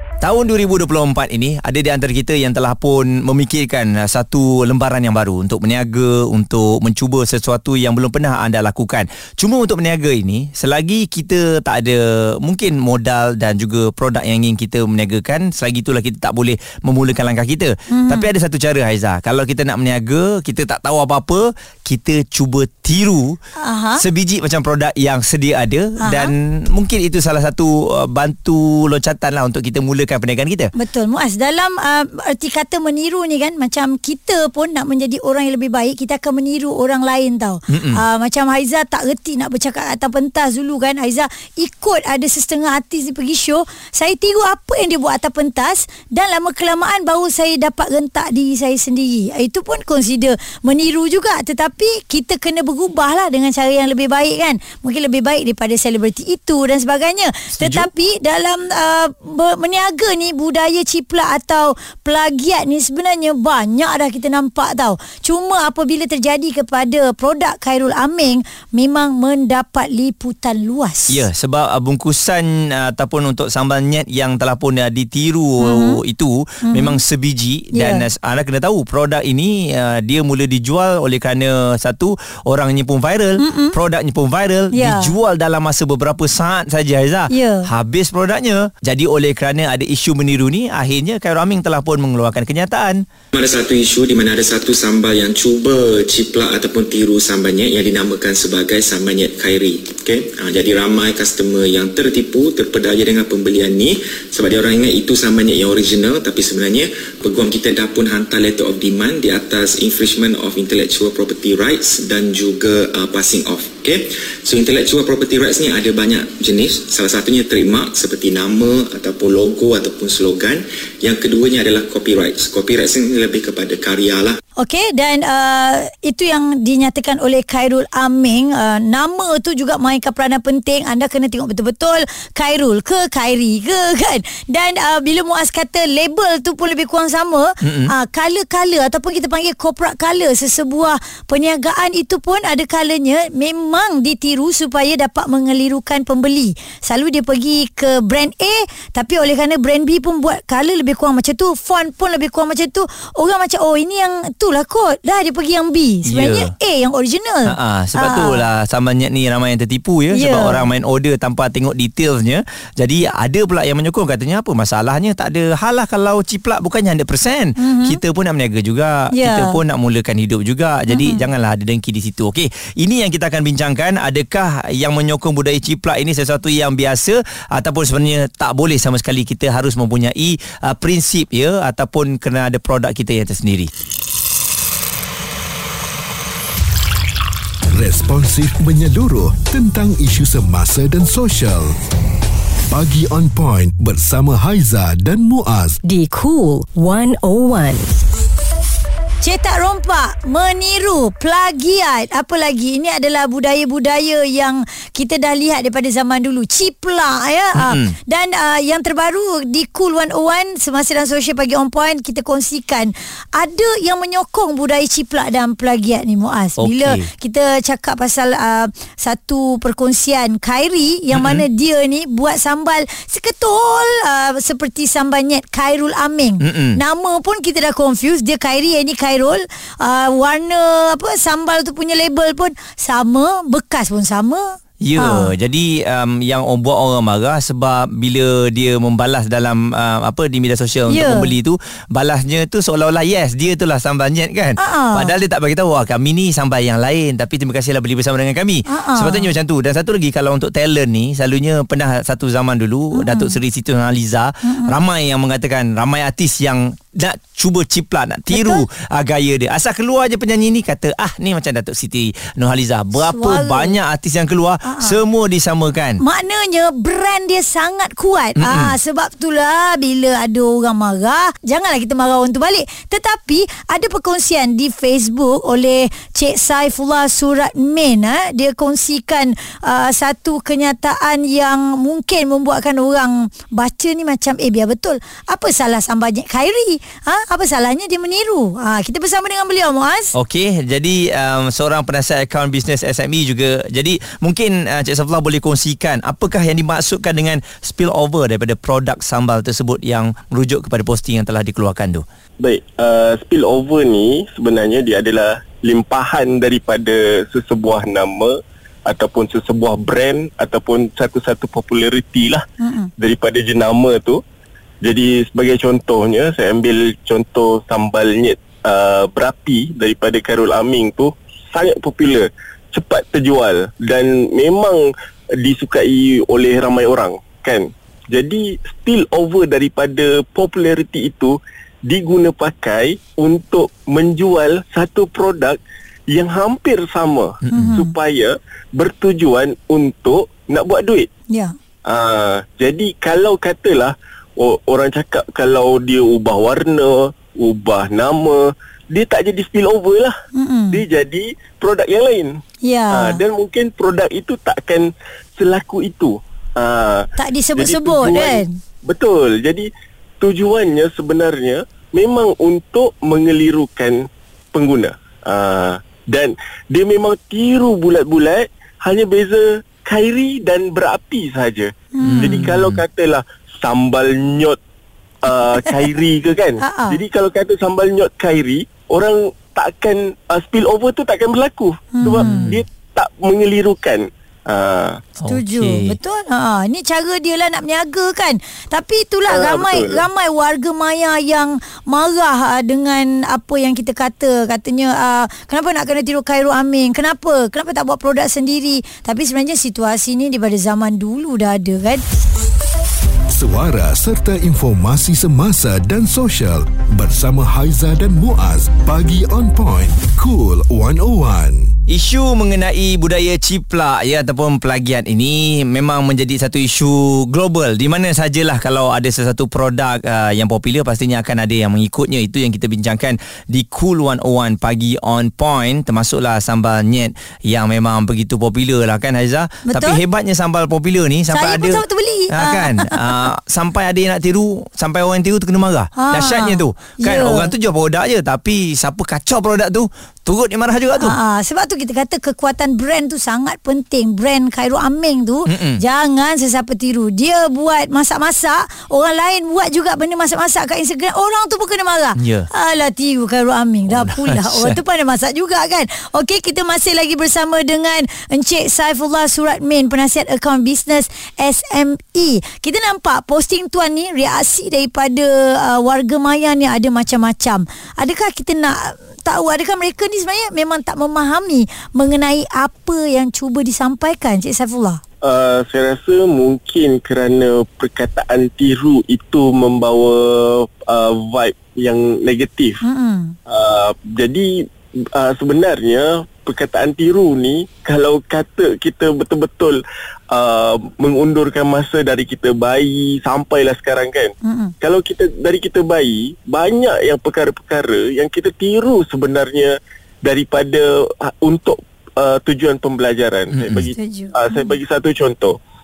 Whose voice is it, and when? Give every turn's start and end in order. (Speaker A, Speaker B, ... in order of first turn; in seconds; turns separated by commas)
Speaker A: 0.2-23.4, Speaker B: 17.9-18.3, Speaker B: 23.6-24.0, Speaker A: 24.0-30.7, Speaker B: 26.0-26.3, Speaker B: 30.7-71.2, Speaker A: 37.7-38.0, Speaker A: 57.5-57.9, Speaker A: 71.1-93.0, Speaker B: 75.6-76.0, Speaker B: 76.7-77.0, Speaker B: 77.7-78.0, Speaker B: 83.4-83.8, Speaker B: 84.7-85.1, Speaker B: 87.3-87.7, Speaker C: 93.3-124.4, Speaker B: 124.6-158.4, Speaker A: 137.6-137.9, Speaker A: 156.0-156.5, Speaker A: 157.4-183.7, Speaker B: 160.1-160.6, Speaker B: 167.6-168.0, Speaker B: 169.1-169.6, Speaker B: 170.9-171.2, Speaker D: 187.7-191.7, Speaker D: 192.7-195.8, Speaker E: 195.8-197.9, Speaker B: 199.2-235.3, Speaker A: 207.6-207.9, Speaker A: 216.6-217.1, Speaker A: 221.1-221.4, Speaker A: 226.4-226.8, Speaker A: 234.8-266.0, Speaker B: 240.9-241.3, Speaker B: 244.6-245.1, Speaker B: 248.7-249.3, Speaker B: 252.9-253.4, Speaker B: 254.4-254.7, Speaker B: 258.3-258.6, Speaker B: 263.0-263.8, Speaker B: 264.6-265.0, Speaker B: 266.0-290.1, Speaker A: 268.4-268.8, Speaker A: 290.1-302.0, Speaker F: 302.4-308.3, Speaker F: 308.9-312.4, Speaker B: 312.6-312.9, Speaker F: 313.0-314.2, Speaker F: 314.8-324.8, Speaker F: 325.4-335.6, Speaker F: 336.1-341.1, Speaker A: 337.5-337.8, Speaker B: 337.5-337.9, Speaker F: 341.9-350.1, Speaker B: 350.3-350.8, Speaker F: 350.7-352.3, Speaker B: 352.6-353.2, Speaker F: 352.9-359.7, Speaker B: 357.2-358.5, Speaker F: 360.2-374.6, Speaker B: 371.9-372.4, Speaker A: 372.0-372.8, Speaker F: 375.2-385.0, Speaker B: 376.6-377.0, Speaker B: 381.9-382.5, Speaker A: 382.1-382.6, Speaker A: 385.2-386.0, Speaker B: 385.3-402.0, Speaker F: 389.3-390.0, Speaker D: 403.3-411.7, Speaker A: 411.9-441.2, Speaker B: 429.7-430.0, Speaker B: 431.3-433.1, Speaker B: 435.9-437.5, Speaker B: 440.9-475.0, Speaker A: 445.5-445.8, Speaker A: 452.2-452.5, Speaker A: 453.9-454.8, Speaker F: 475.2-482.8, Speaker B: 482.8-483.3, Speaker F: 483.5-484.6, Speaker F: 485.1-489.8, Speaker F: 490.3-505.6, Speaker B: 494.4-494.7, Speaker A: 503.5-503.9, Speaker B: 503.8-504.7